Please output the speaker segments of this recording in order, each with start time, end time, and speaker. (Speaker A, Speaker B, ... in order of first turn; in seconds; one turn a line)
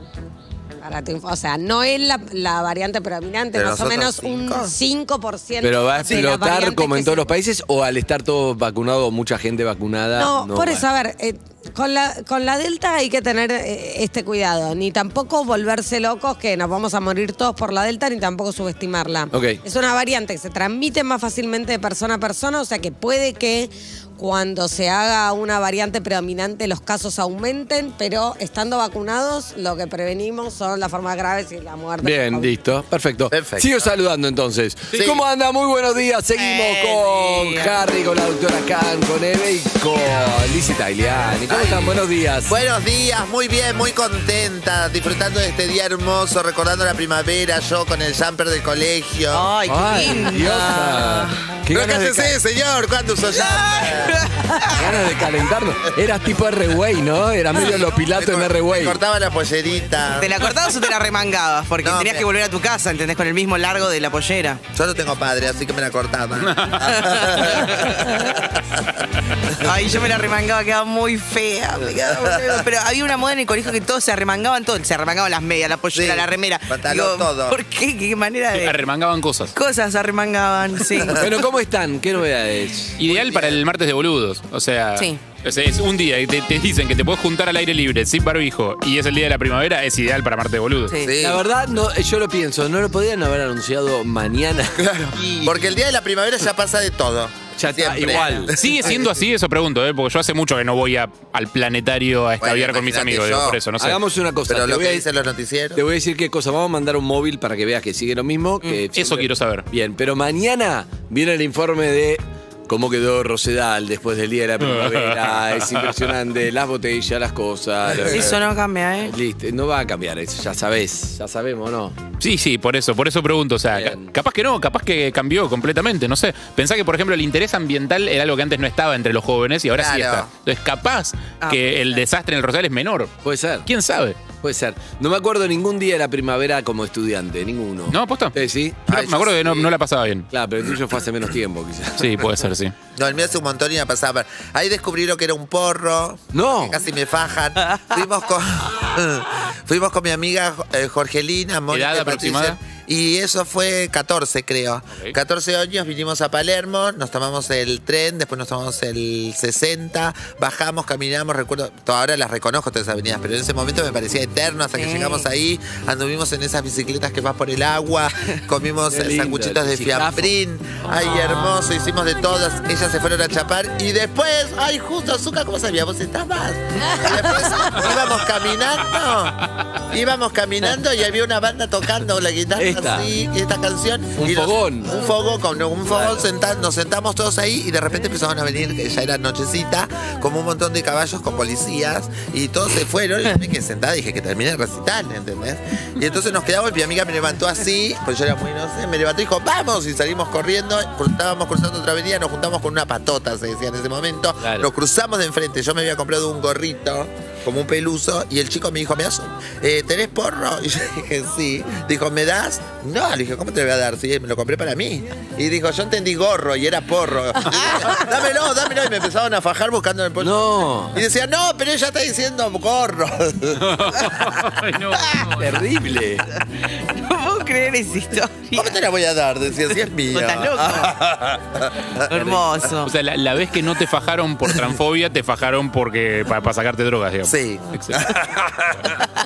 Speaker A: 0.8-7.3
Speaker B: 3.5-4.7
Speaker C: 5.6-10.8
Speaker A: 10.2-32.5
Speaker C: 19.3-19.6
Speaker C: 32.0-42.6
Speaker B: 33.3-33.9
Speaker B: 34.9-35.2
Speaker D: 36.4-37.7
Speaker B: 41.5-41.9
Speaker B: 42.5-49.5
Speaker D: 49.3-51.6
Speaker C: 49.7-52.4
Speaker B: 51.7-54.3
Speaker D: 53.3-54.9
Speaker C: 54.6-59.0
Speaker B: 57.5-60.4
Speaker D: 60.2-64.6
Speaker B: 61.8-62.3
Speaker B: 64.7-68.8
Speaker E: 66.4-67.9
Speaker D: 67.4-67.9
Speaker D: 69.6-78.8
Speaker B: 75.9-77.6
Speaker E: 78.5-79.5
Speaker D: 79.5-81.3
Speaker C: 81.1-83.3
Speaker E: 83.0-91.0
Speaker B: 83.1-83.5
Speaker B: 91.0-91.4
Speaker C: 91.2-94.9
Speaker B: 94.8-99.2
Speaker C: 95.4-95.7
Speaker C: 97.5-98.5
Speaker E: 98.5-104.0
Speaker B: 102.4-103.6
Speaker C: 103.8-105.0
Speaker B: 104.5-105.8
Speaker C: 105.7-118.4
Speaker E: 108.9-109.6
Speaker E: 114.7-116.0
Speaker D: 118.1-119.1
Speaker C: 119.0-122.0
Speaker E: 122.2-133.1
Speaker C: 123.7-124.1
Speaker B: 129.7-130.3
Speaker D: 131.4-132.0
Speaker C: 133.2-133.7
Speaker E: 133.7-134.2
Speaker C: 134.4-138.9
Speaker E: 137.9-138.4
Speaker E: 138.9-140.3
Speaker B: 138.9-139.7
Speaker C: 140.3-142.5
Speaker E: 142.0-142.7
Speaker B: 142.9-224.1
Speaker C: 146.3-146.8
Speaker E: 151.7-152.6
Speaker D: 164.7-165.2
Speaker C: 168.9-170.4
Speaker D: 171.0-171.4
Speaker C: 182.6-183.1
Speaker C: 184.2-184.9
Speaker C: 185.9-186.3
Speaker C: 204.4-204.7
Speaker C: 220.2-221.0
Speaker E: 223.6-225.6
Speaker C: 225.3-226.2
Speaker D: 226.7-228.8
Speaker B: 228.6-232.1
Speaker D: 230.1-230.9
Speaker D: 232.1-232.9
Speaker E: 232.2-238.1
Speaker B: 237.2-238.9